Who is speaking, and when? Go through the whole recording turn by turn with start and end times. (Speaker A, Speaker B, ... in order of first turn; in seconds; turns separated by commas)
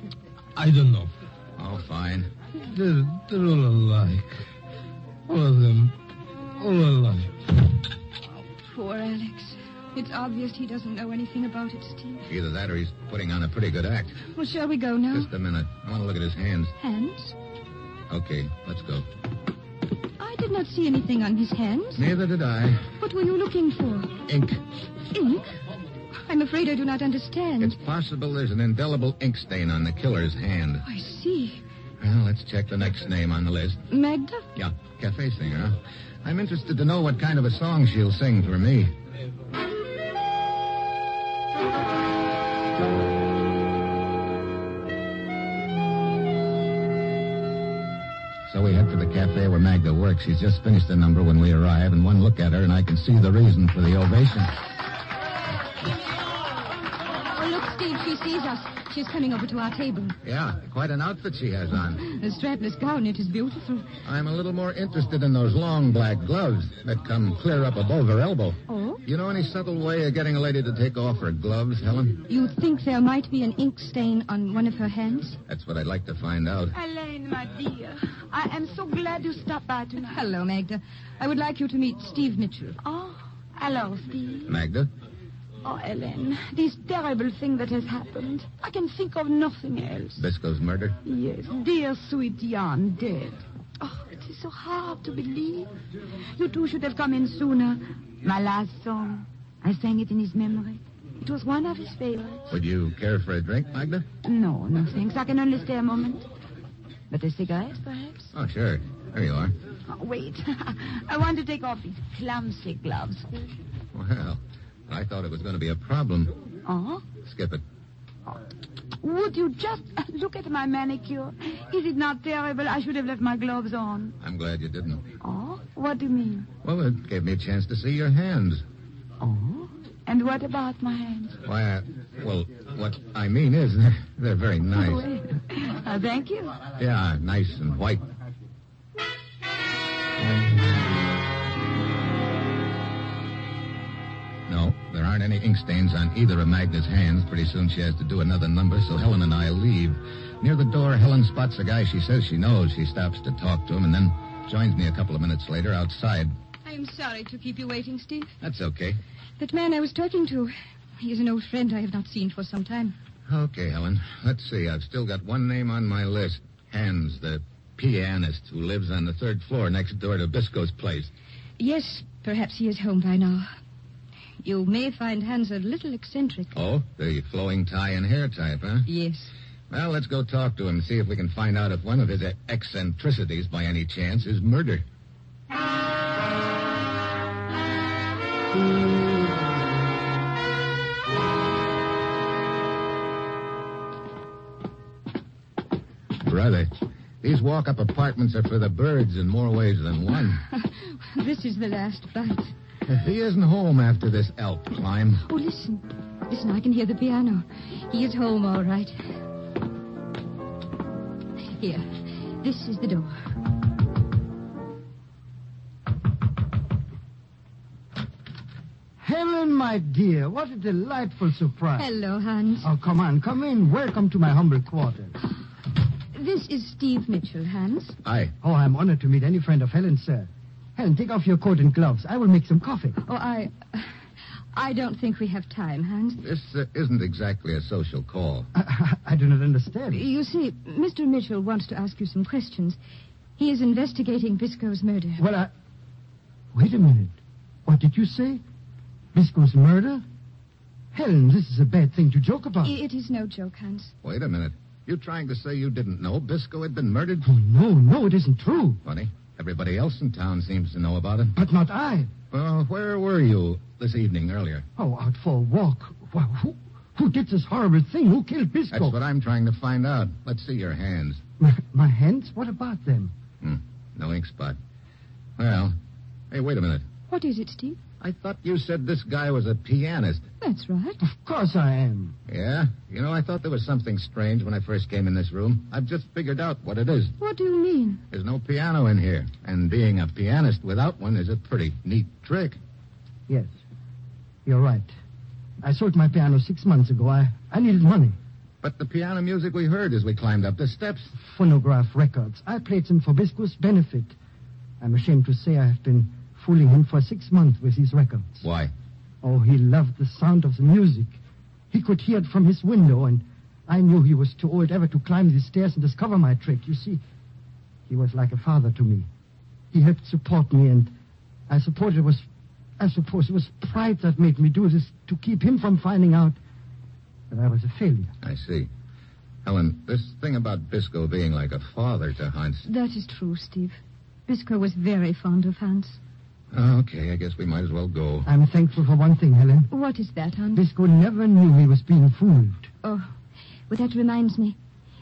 Speaker A: 0.6-1.1, Speaker B: 1.6-2.3, Speaker A: 2.6-4.4, Speaker A: 5.3-6.0, Speaker A: 6.5-7.4, Speaker C: 8.6-12.2, Speaker B: 12.3-14.2, Speaker C: 14.3-15.3, Speaker B: 15.1-16.7, Speaker C: 16.8-17.4, Speaker B: 18.1-19.1, Speaker C: 20.2-22.0, Speaker B: 22.0-22.9, Speaker C: 23.0-24.2, Speaker B: 24.3-24.6, Speaker C: 25.1-25.6, Speaker C: 26.1-27.8, Speaker B: 27.6-30.9, Speaker C: 30.9-31.6, Speaker B: 32.0-33.9, Speaker C: 33.9-34.5, Speaker B: 34.6-38.9, Speaker B: 48.5-54.5, Speaker C: 57.3-60.2, Speaker B: 60.2-62.1, Speaker C: 62.0-63.9, Speaker B: 64.0-72.2, Speaker C: 68.7-69.0, Speaker C: 72.3-75.4, Speaker B: 75.5-76.7, Speaker D: 76.7-80.2, Speaker C: 80.1-82.8, Speaker D: 82.8-84.6, Speaker B: 84.5-84.9, Speaker D: 85.6-90.2, Speaker B: 90.2-91.0, Speaker D: 91.0-95.7, Speaker D: 96.4-102.5, Speaker B: 102.5-104.0, Speaker D: 104.2-106.2, Speaker D: 107.1-108.3, Speaker B: 108.3-109.5, Speaker D: 109.9-113.5, Speaker B: 113.9-116.3, Speaker D: 116.7-117.0, Speaker B: 117.2-117.6, Speaker D: 119.0-124.2, Speaker B: 124.2-125.1, Speaker D: 125.2-126.5, Speaker B: 126.6-128.6, Speaker D: 129.2-131.4, Speaker B: 131.4-135.1, Speaker D: 134.7-136.6, Speaker B: 136.8-138.1, Speaker B: 144.5-156.3, Speaker C: 156.7-158.3, Speaker B: 158.4-159.0, Speaker C: 159.4-162.9, Speaker B: 163.3-171.1, Speaker C: 171.6-173.5, Speaker C: 174.4-176.5, Speaker B: 176.5-178.9, Speaker C: 178.9-179.3, Speaker B: 179.7-184.8, Speaker B: 196.2-200.4, Speaker C: 200.5-202.5, Speaker B: 202.9-205.2, Speaker C: 205.3-209.0, Speaker C: 211.6-213.2, Speaker E: 219.0-221.9, Speaker C: 221.8-222.7, Speaker E: 222.6-225.1, Speaker C: 226.1-228.0, Speaker B: 228.1-228.3, Speaker E: 228.4-233.0, Speaker C: 233.0-233.9, Speaker C: 234.5-236.2, Speaker B: 236.2-238.5, Speaker E: 238.5-240.0, Speaker C: 239.9-242.8, Speaker C: 243.4-245.2, Speaker E: 245.2-245.5, Speaker E: 246.5-247.2, Speaker E: 247.7-248.4, Speaker E: 249.1-250.0, Speaker E: 250.9-252.8, Speaker C: 252.6-253.9, Speaker B: 254.0-257.3, Speaker E: 257.2-258.8, Speaker B: 258.9-261.4, Speaker E: 261.4-262.1, Speaker B: 262.3-264.7, Speaker E: 264.8-268.9, Speaker B: 268.7-271.2, Speaker E: 271.4-273.1, Speaker B: 273.4-274.6, Speaker B: 275.4-275.8, Speaker B: 276.3-276.9, Speaker C: 277.1-277.8, Speaker B: 278.0-280.3, Speaker C: 280.4-281.0, Speaker E: 281.0-282.1, Speaker B: 282.3-287.2, Speaker C: 287.2-288.0, Speaker B: 288.1-292.6, Speaker E: 294.5-294.9, Speaker E: 295.6-298.2, Speaker B: 298.6-301.1, Speaker E: 301.2-304.1, Speaker E: 304.8-308.4, Speaker B: 308.4-308.7, Speaker E: 309.2-311.2, Speaker E: 311.7-317.0, Speaker E: 317.9-319.1, Speaker E: 319.7-320.9, Speaker E: 321.5-322.2, Speaker E: 322.8-326.4, Speaker E: 327.3-328.1, Speaker B: 328.2-328.7, Speaker B: 329.4-332.7, Speaker C: 332.7-336.0, Speaker B: 336.5-338.3, Speaker E: 338.2-339.7, Speaker C: 339.7-340.6, Speaker E: 340.6-342.7, Speaker C: 342.8-343.1, Speaker C: 343.7-344.6